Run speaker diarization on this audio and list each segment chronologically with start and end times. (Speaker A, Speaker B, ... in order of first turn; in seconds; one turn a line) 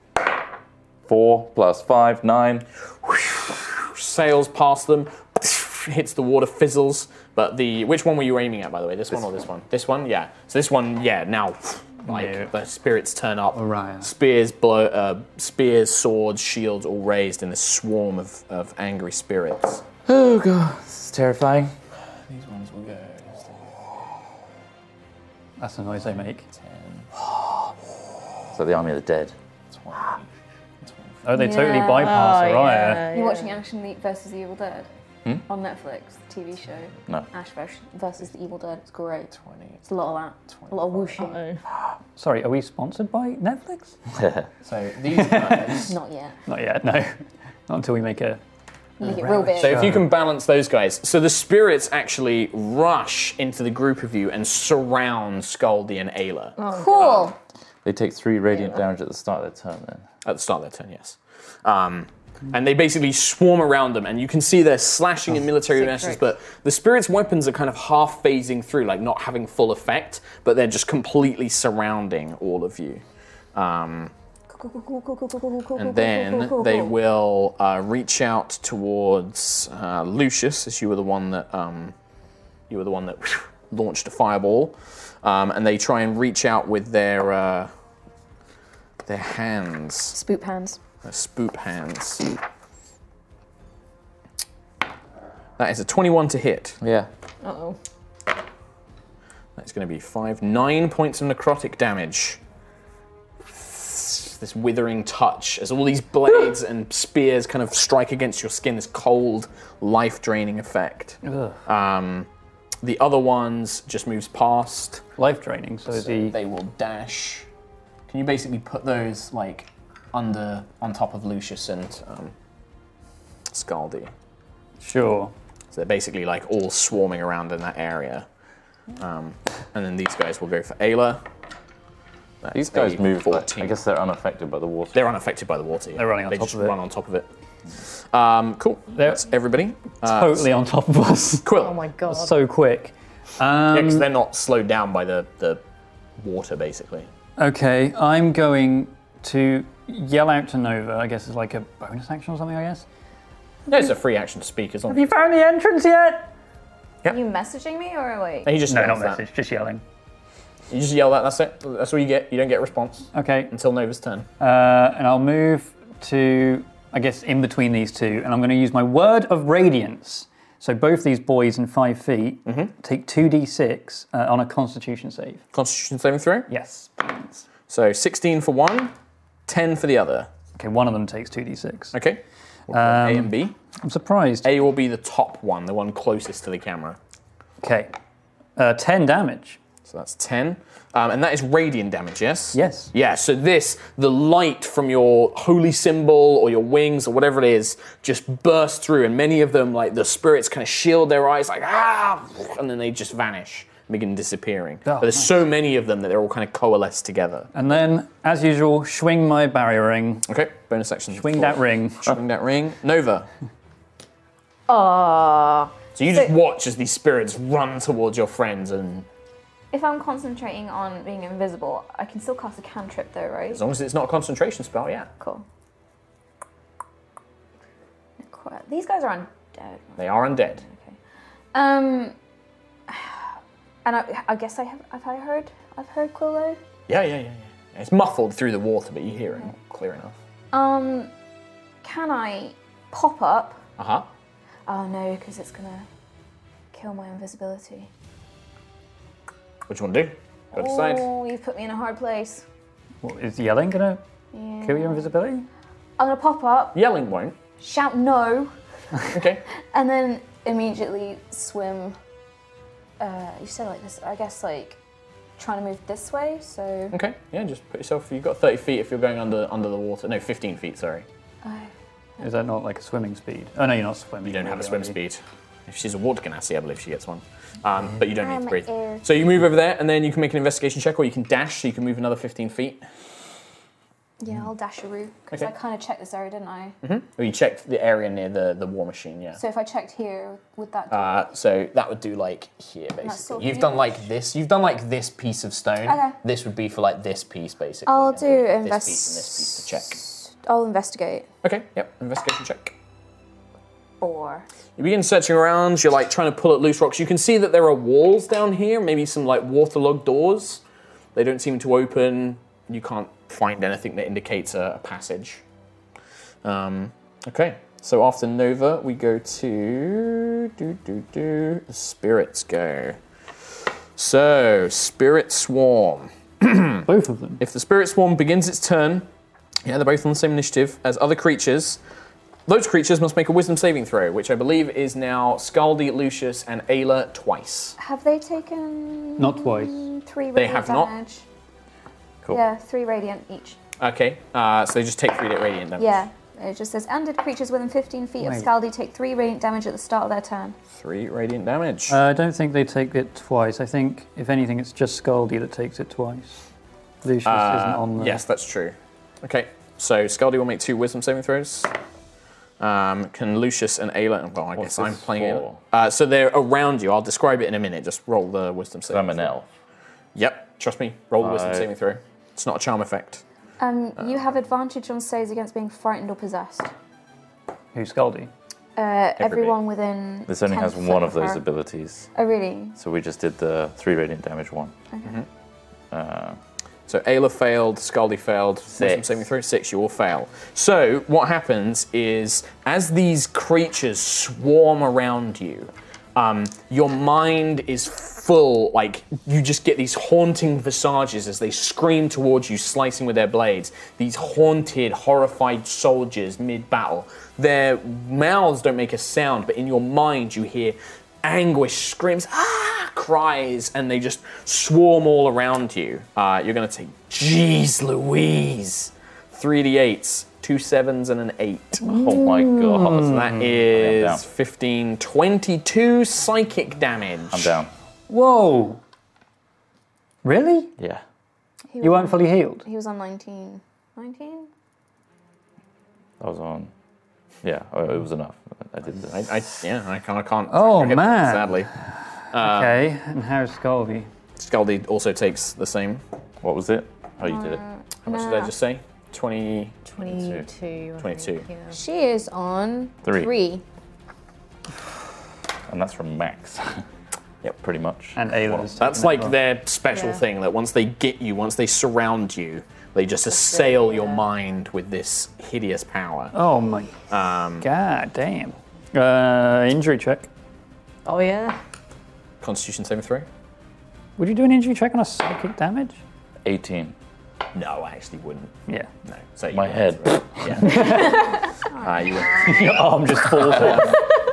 Speaker A: 1.1-2.7
Speaker B: 3.2-19.9
Speaker C: 12.1-12.5
Speaker C: 13.5-14.1
Speaker A: 20.1-21.7
Speaker B: 22.3-23.7
Speaker C: 25.6-26.4
Speaker B: 26.4-27.1
Speaker A: 28.5-29.4
Speaker B: 29.7-30.3
Speaker B: 30.8-31.1
Speaker C: 31.2-33.1
Speaker D: 31.3-32.2
Speaker E: 31.5-33.6
Speaker D: 33.1-34.9
Speaker D: 35.5-39.3
Speaker B: 39.3-39.8
Speaker D: 39.9-41.4
Speaker E: 40.8-41.6
Speaker C: 42.2-44.0
Speaker A: 44.1-44.5
Speaker B: 44.6-45.9
Speaker C: 45.1-45.7
Speaker D: 45.8-46.4
Speaker C: 46.5-48.4
Speaker D: 49.0-49.8
Speaker C: 49.1-50.1
Speaker B: 49.4-57.3
Speaker E: 56.6-57.0
Speaker D: 56.7-57.4
Speaker A: 57.9-60.0
Speaker B: 60.2-73.0
Speaker E: 65.8-66.2
Speaker B: 73.5-74.1
Speaker D: 74.5-76.9
Speaker B: 75.8-82.0
Speaker B: 82.7-87.7
Speaker B: 89.0-90.2
Speaker E: 90.2-90.8
Speaker B: 91.0-92.2
Speaker B: 95.6-96.8
Speaker A: 96.8-97.1
Speaker E: 97.4-97.8
Speaker B: 99.6-102.4
Speaker B: 103.5-112.3
Speaker C: 111.3-111.6
Speaker B: 112.8-115.0
Speaker C: 115.2-116.4
Speaker B: 115.9-117.5
Speaker B: 118.1-122.3
Speaker B: 123.5-124.1
Speaker C: 124.8-125.3
Speaker B: 125.7-128.3
Speaker B: 129.0-131.2
Speaker B: 132.4-133.7
Speaker A: 132.5-135.0
Speaker B: 134.9-137.3
Speaker C: 135.9-136.8
Speaker B: 137.9-140.5
Speaker C: 138.9-139.3
Speaker C: 140.0-141.5
Speaker B: 141.4-141.8
Speaker E: 141.6-142.3
Speaker C: 142.1-144.1
Speaker B: 143.7-145.6
Speaker B: 146.2-147.1
Speaker C: 147.4-152.8
Speaker B: 153.7-155.1
Speaker C: 154.9-156.3
Speaker D: 157.1-158.6
Speaker B: 158.5-159.2
Speaker C: 158.7-159.8
Speaker B: 160.7-164.3
Speaker C: 163.1-163.5
Speaker C: 164.4-175.4
Speaker B: 172.5-172.7
Speaker B: 175.5-176.5
Speaker C: 176.5-177.5
Speaker B: 177.7-178.9
Speaker B: 179.5-180.3
Speaker C: 180.6-182.0
Speaker B: 181.9-183.6
Speaker C: 182.7-184.5
Speaker B: 184.4-187.0
Speaker C: 187.6-187.9
Speaker C: 188.6-189.6
Speaker B: 189.9-207.5
Speaker C: 192.5-192.9
Speaker C: 204.9-205.4
Speaker C: 207.5-210.3
Speaker B: 210.3-213.3
Speaker C: 211.1-212.1
Speaker E: 214.7-215.7
Speaker B: 216.0-219.1
Speaker D: 219.7-223.7
Speaker B: 223.5-225.1
Speaker D: 225.2-225.4
Speaker D: 228.2-231.0
Speaker B: 230.0-230.6
Speaker D: 231.5-232.2
Speaker D: 232.9-233.3
Speaker D: 233.8-236.6
Speaker B: 236.9-240.2
Speaker D: 240.5-241.1
Speaker D: 241.8-243.6
Speaker B: 243.8-244.1
Speaker D: 244.7-245.9
Speaker D: 246.7-247.9
Speaker B: 249.7-251.1
Speaker D: 250.5-252.4
Speaker C: 253.0-254.0
Speaker D: 254.3-255.2
Speaker C: 254.6-255.5
Speaker D: 256.0-256.8
Speaker B: 256.7-257.4
Speaker D: 257.6-258.5
Speaker B: 259.1-259.5
Speaker D: 259.7-262.0
Speaker D: 263.0-264.8
Speaker D: 265.4-266.9
Speaker B: 266.9-271.1
Speaker D: 271.4-271.7
Speaker C: 272.2-275.0
Speaker B: 274.2-282.8
Speaker D: 278.2-279.1
Speaker D: 284.2-286.8
Speaker B: 286.8-289.4
Speaker D: 289.4-291.3
Speaker B: 290.9-300.1
Speaker D: 293.0-294.1
Speaker D: 295.9-296.2
Speaker D: 297.9-301.3
Speaker B: 301.4-302.8
Speaker D: 304.0-304.5
Speaker B: 304.8-310.6
Speaker B: 311.1-315.4
Speaker B: 316.4-323.0
Speaker B: 324.0-326.9
Speaker C: 326.8-327.4
Speaker B: 327.4-329.1
Speaker B: 329.6-331.8
Speaker B: 332.5-337.8
Speaker D: 337.8-341.2
Speaker C: 339.2-339.9
Speaker B: 340.4-340.9
Speaker D: 342.3-343.6
Speaker B: 343.8-346.0
Speaker D: 345.8-350.6
Speaker C: 348.2-348.5
Speaker B: 350.7-352.0
Speaker C: 351.9-356.4
Speaker C: 357.0-358.2
Speaker B: 357.2-361.7
Speaker B: 362.6-369.2
Speaker A: 364.6-365.6
Speaker A: 368.9-369.5
Speaker B: 370.1-373.2
Speaker A: 371.2-371.7
Speaker D: 373.6-376.7
Speaker C: 377.7-378.3
Speaker D: 378.8-381.4
Speaker B: 379.2-379.5
Speaker A: 380.3-382.1
Speaker D: 382.1-382.8
Speaker A: 382.8-384.7
Speaker A: 385.9-386.4
Speaker B: 386.9-421.9
Speaker A: 388.8-389.1
Speaker A: 421.9-424.2
Speaker C: 422.2-423.4
Speaker B: 422.9-427.6
Speaker A: 427.3-427.7
Speaker C: 428.1-428.8
Speaker C: 430.2-430.7
Speaker A: 430.8-431.0
Speaker D: 431.7-434.5
Speaker C: 431.8-432.7
Speaker A: 436.2-436.7
Speaker A: 437.4-439.3
Speaker B: 439.0-441.7
Speaker C: 440.5-441.7
Speaker B: 442.3-442.8
Speaker C: 442.4-444.1
Speaker B: 444.4-446.0
Speaker A: 446.4-447.6
Speaker D: 447.2-448.5
Speaker B: 448.1-450.4
Speaker E: 449.9-451.8
Speaker B: 451.0-451.5
Speaker D: 451.7-453.6
Speaker A: 453.1-453.3
Speaker A: 455.7-456.9
Speaker A: 457.6-458.7
Speaker C: 458.2-459.4
Speaker B: 458.8-466.4
Speaker E: 459.9-460.2
Speaker E: 463.3-464.2
Speaker C: 466.3-466.9
Speaker B: 467.1-467.6
Speaker C: 467.6-470.3
Speaker E: 471.1-471.6
Speaker B: 472.4-473.3
Speaker C: 474.2-476.0
Speaker A: 476.4-476.9
Speaker B: 477.5-478.5
Speaker B: 479.1-484.0
Speaker A: 479.5-480.6
Speaker C: 480.6-481.3
Speaker D: 481.1-482.7
Speaker C: 482.4-484.0